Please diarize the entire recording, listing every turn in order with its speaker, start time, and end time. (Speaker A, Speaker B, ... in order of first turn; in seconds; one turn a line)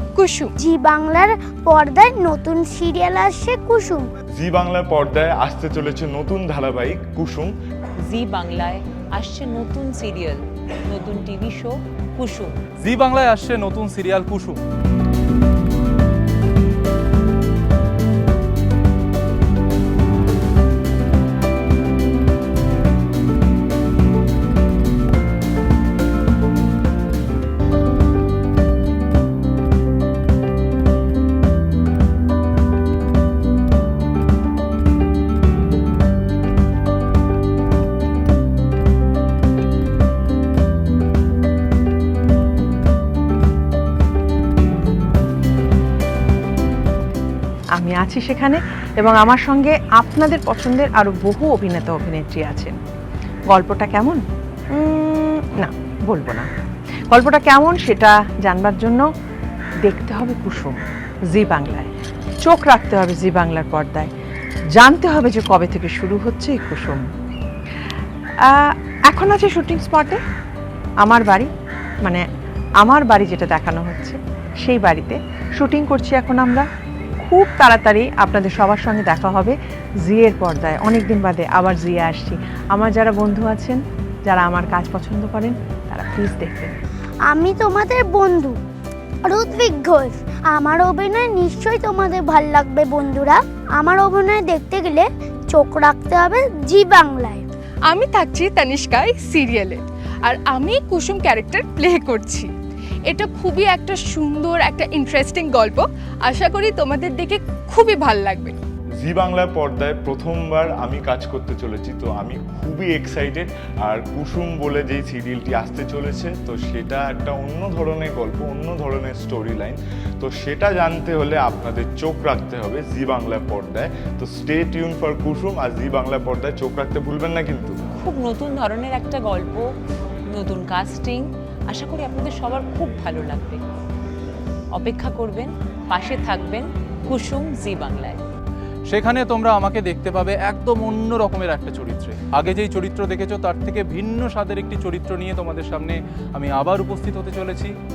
Speaker A: 0.1-0.5
Speaker B: 0.6-4.1
Speaker C: 4.3-7.5
Speaker D: 8.0-12.5
Speaker E: 12.8-14.6
Speaker F: 47.8-52.8
Speaker F: 53.5-54.2
Speaker F: 54.7-56.5
Speaker F: 57.1-59.1
Speaker F: 59.9-61.9
Speaker F: 62.4-64.1
Speaker F: 64.8-67.1
Speaker F: 68.4-70.2
Speaker F: 71.0-71.5
Speaker F: 72.8-76.7
Speaker F: 77.2-86.7
Speaker B: 87.3-88.6
Speaker B: 89.2-97.5
Speaker A: 97.9-102.5
Speaker A: 103.1-108.6
Speaker C: 109.0-127.8
Speaker D: 128.0-129.7
Speaker D: 130.3-133.6
Speaker D: 134.8-138.2
Speaker E: 138.9-147.7